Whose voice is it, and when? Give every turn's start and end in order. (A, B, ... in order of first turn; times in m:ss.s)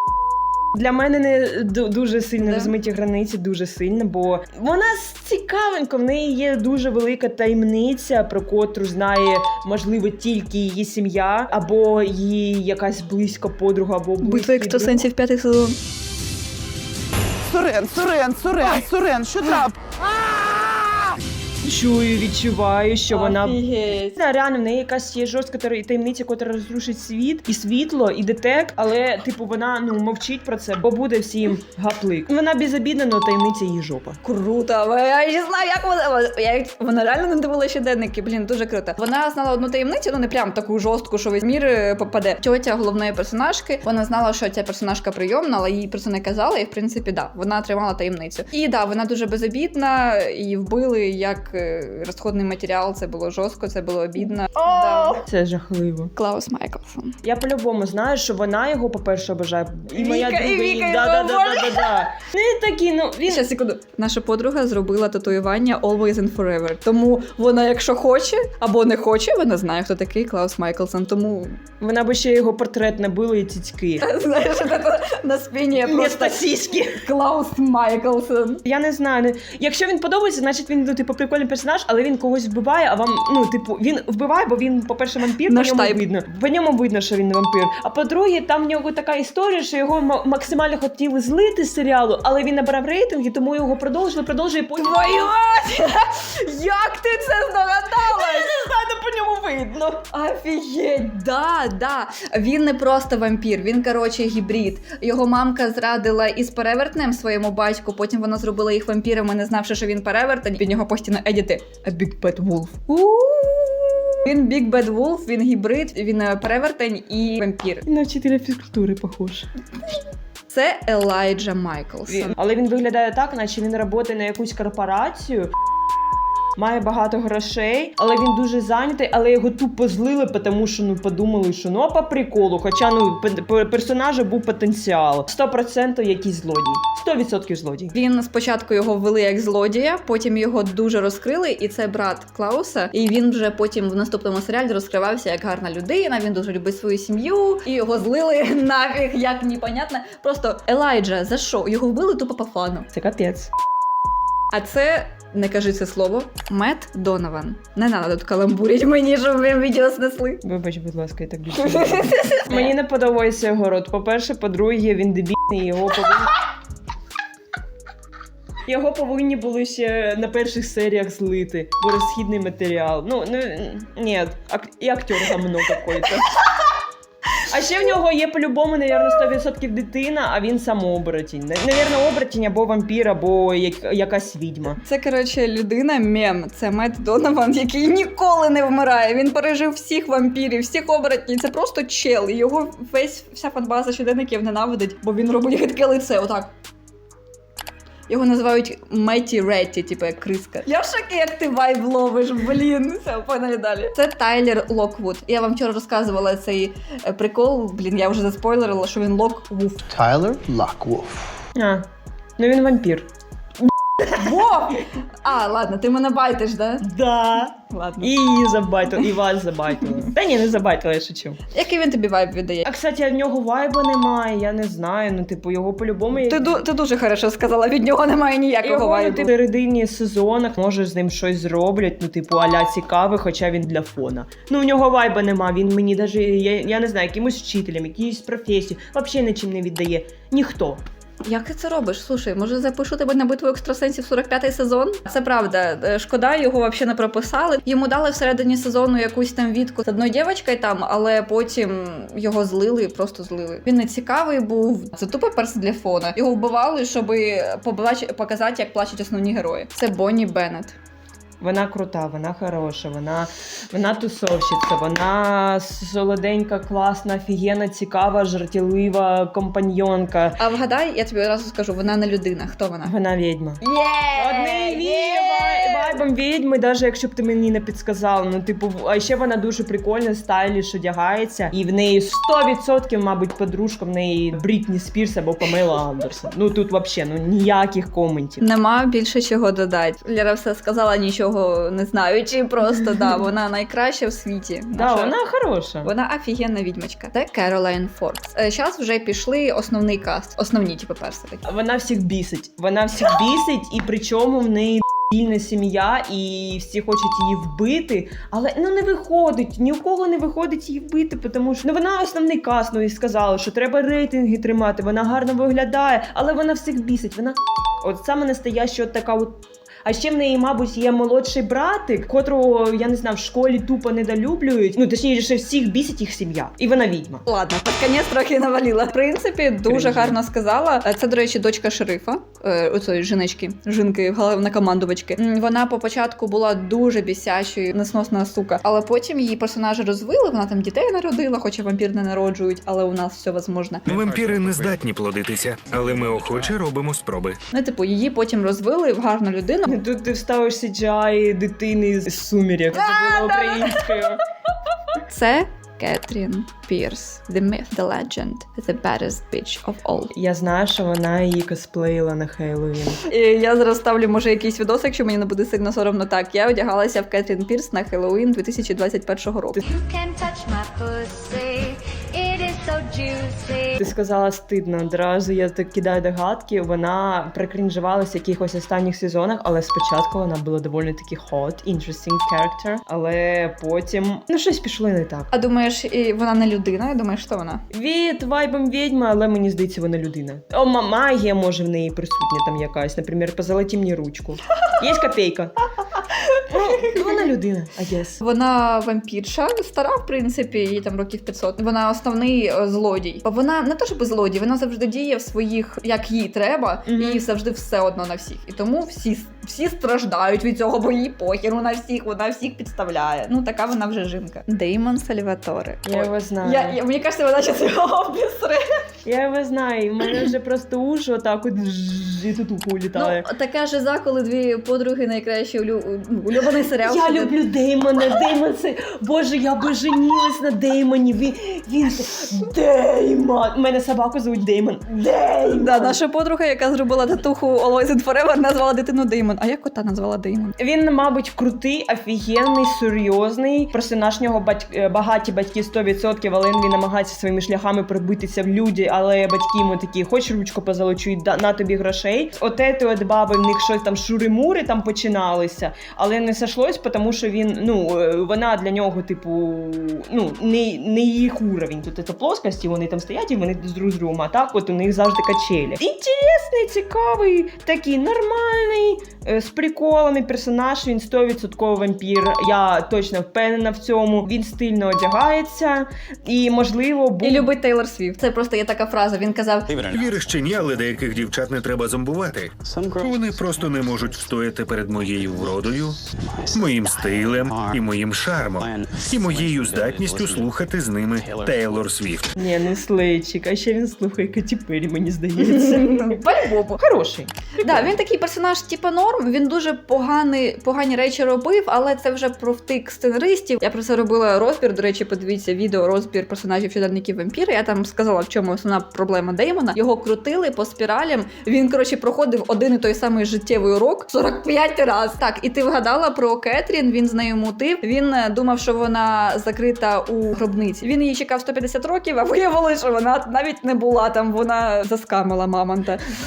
0:00.7-0:15.0 A
0:02.4-0:02.7 B
0:14.2-0:15.8 B
0:17.5-0:19.8 C
0:21.6-0:34.2 A
0:23.1-0:24.2 B
0:34.2-0:55.2 B
0:54.2-0:56.1 A
0:56.2-0:57.1 B
0:57.2-1:03.4 A
0:59.9-1:02.1 B
1:03.3-1:11.6 B
1:11.8-1:14.0 A
1:14.0-1:18.6 B
1:15.8-1:17.0 A
1:18.6-1:35.3 A
1:25.5-1:26.0 B
1:34.8-1:38.5 B
1:38.1-1:40.0 A
1:40.1-1:57.8 B
1:57.8-1:59.5 A
2:00.5-2:02.3 B
2:02.1-2:05.5 A
2:06.6-2:17.9 A
2:17.9-2:32.9 B
2:32.9-2:33.5 A
2:34.5-2:40.4 B
2:40.4-2:46.3 A
2:41.5-2:42.7 B
2:48.6-2:56.3 A
2:57.5-3:04.8 A
3:04.8-3:16.5 B
3:18.1-3:29.8 B
3:29.9-3:31.1 D
3:31.6-3:31.8 A
3:32.4-3:33.1 A
3:34.0-3:36.9 B
3:36.8-3:41.4 A
3:37.6-3:38.1 B
3:41.5-3:42.7 B
3:42.6-3:46.6 A
3:46.2-3:49.3 B
3:48.6-4:00.8 A
4:01.2-4:20.7 B
4:21.4-4:30.4 A
4:30.4-4:32.9 B
4:32.8-4:33.6 A
4:33.6-4:36.0 B
4:34.1-4:48.4 A
4:48.4-4:55.1 B
4:52.8-4:53.1 A
4:54.8-4:55.9 A
4:55.8-5:01.4 B
5:01.4-5:27.2 A
5:27.2-5:43.8 B
5:29.7-5:30.2 A
5:43.8-5:47.4 E
5:43.9-5:44.7 D
5:47.5-5:49.7 B
5:49.7-5:54.2 A
5:52.7-5:53.9 B
5:55.0-6:00.1 B
6:00.1-6:03.0 A
6:03.1-6:09.6 B
6:09.6-6:13.9 F
6:13.8-6:25.3 A
6:25.3-6:27.6 B
6:27.7-6:35.5 A
6:36.5-6:38.2 A
6:38.2-6:58.6 B
6:46.9-6:47.2 A
6:55.8-6:56.8 A
6:59.0-7:03.2 A
7:02.9-7:07.3 B
7:06.8-7:16.0 A
7:15.5-7:20.5 B
7:20.6-7:57.5 A
7:57.2-7:59.7 B
7:59.7-8:00.1 D
7:59.8-8:06.0 E
8:02.6-8:03.6 D
8:06.4-8:07.8 D
8:06.5-8:12.3 E
8:08.6-8:10.6 D
8:11.2-8:11.9 D
8:12.4-8:16.2 A
8:15.4-8:16.8 B
8:16.8-8:17.9 A
8:17.6-8:46.0 B